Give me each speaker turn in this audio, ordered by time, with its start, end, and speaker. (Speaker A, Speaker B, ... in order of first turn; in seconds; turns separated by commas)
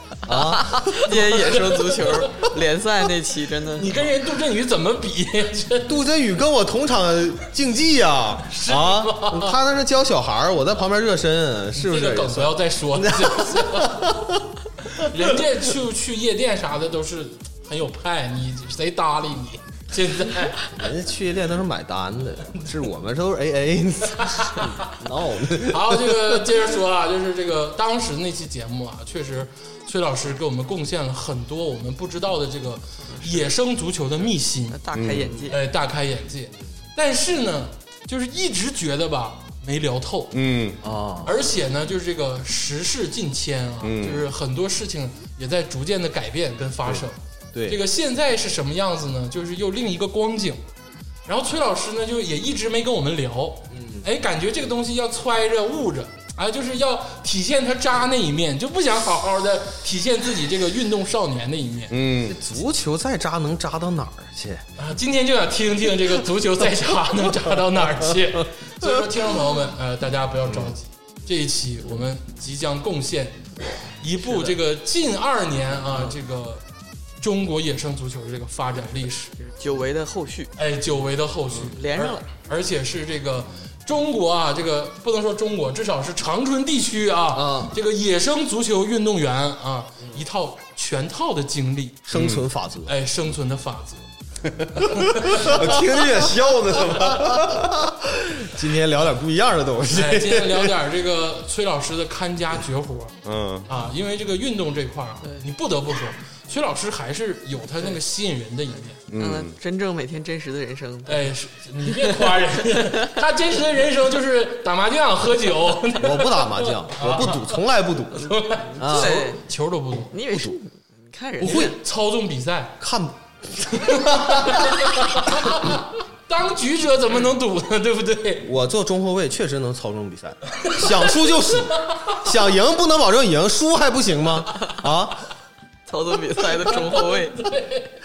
Speaker A: 0.2-1.1, Speaker B: 0.3-4.1, Speaker C: 1.1-2.4, Speaker C: 3.8-6.0, Speaker A: 5.8-14.4, Speaker C: 8.5-9.6, Speaker C: 11.8-14.2, Speaker C: 14.9-20.6, Speaker A: 20.7-26.5, Speaker C: 24.2-24.9, Speaker C: 25.6-34.8, Speaker B: 33.1-33.5, Speaker B: 34.7-35.6, Speaker D: 34.9-35.4, Speaker C: 35.5-40.4, Speaker D: 40.3-40.8, Speaker A: 40.8-41.4, Speaker C: 41.2-50.6, Speaker D: 43.8-44.2, Speaker A: 46.8-47.8, Speaker C: 51.3-61.9, Speaker A: 53.7-54.1, Speaker D: 61.9-62.4, Speaker A: 62.3-64.7, Speaker C: 64.8-73.5, Speaker A: 67.5-68.2, Speaker A: 68.8-69.2, Speaker C: 74.0-76.6, Speaker C: 77.2-79.4, Speaker B: 79.5-80.5, Speaker C: 80.6-92.1, Speaker B: 81.7-82.3, Speaker A: 87.3-87.8, Speaker A: 92.0-92.9, Speaker D: 92.1-92.5, Speaker C: 92.9-94.1, Speaker D: 94.6-97.9, Speaker C: 94.8-95.8, Speaker A: 96.9-100.8, Speaker C: 99.9-109.0, Speaker D: 103.2-103.7, Speaker D: 109.1-109.6, Speaker B: 109.1-111.3, Speaker C: 111.1-117.6, Speaker B: 111.9-113.1, Speaker A: 116.0-119.3, Speaker C: 118.1-120.2, Speaker B: 118.8-119.4, Speaker B: 120.1-121.8, Speaker A: 120.3-120.6, Speaker C: 121.4-122.8, Speaker A: 122.8-124.8, Speaker C: 123.7-128.5, Speaker A: 128.4-135.2, Speaker C: 130.6-131.2, Speaker B: 135.9-137.4, Speaker C: 136.6-138.0